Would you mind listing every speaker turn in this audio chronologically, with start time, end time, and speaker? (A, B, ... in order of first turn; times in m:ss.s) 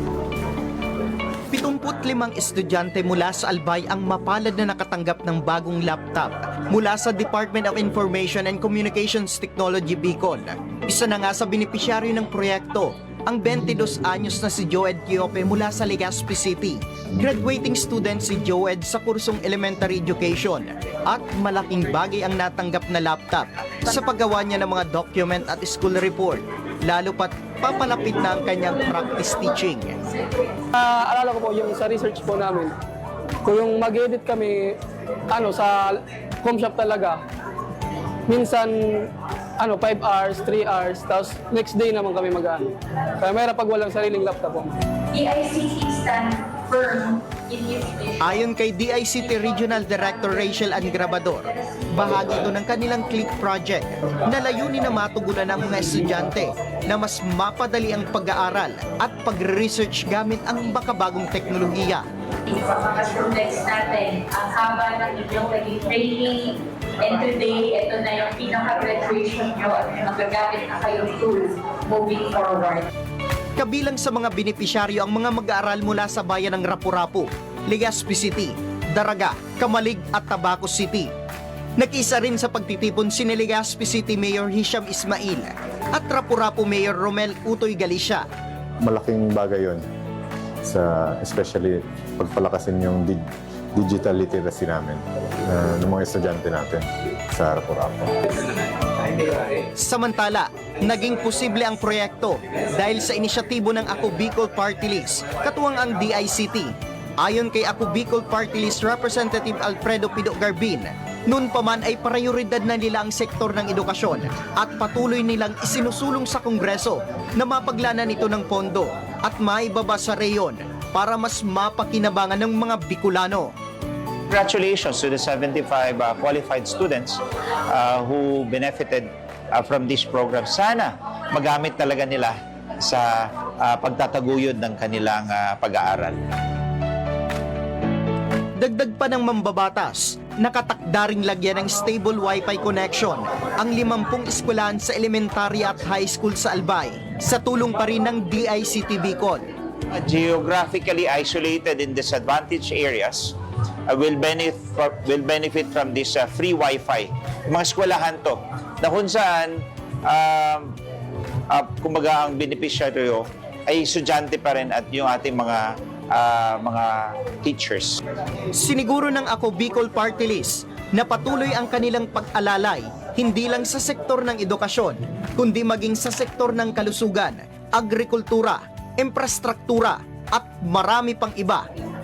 0:01.5-0:30.0 A
0:30.7-0:32.8 B
0:33.4-0:34.8 B
0:35.3-0:37.2 B
0:38.3-0:44.8 B
0:45.1-0:48.4 C
0:48.2-1:02.0 A
0:49.2-0:51.6 C
1:02.5-1:12.9 C
1:13.6-1:21.1 A
1:21.8-1:28.2 A
1:28.8-1:29.9 D
1:30.6-1:38.1 D
1:39.8-2:03.5 A
2:04.3-2:16.2 E
2:18.6-2:29.4 A
2:29.9-2:33.4 E
2:33.9-2:40.8 E
2:41.5-2:48.0 E
2:48.5-3:01.7 A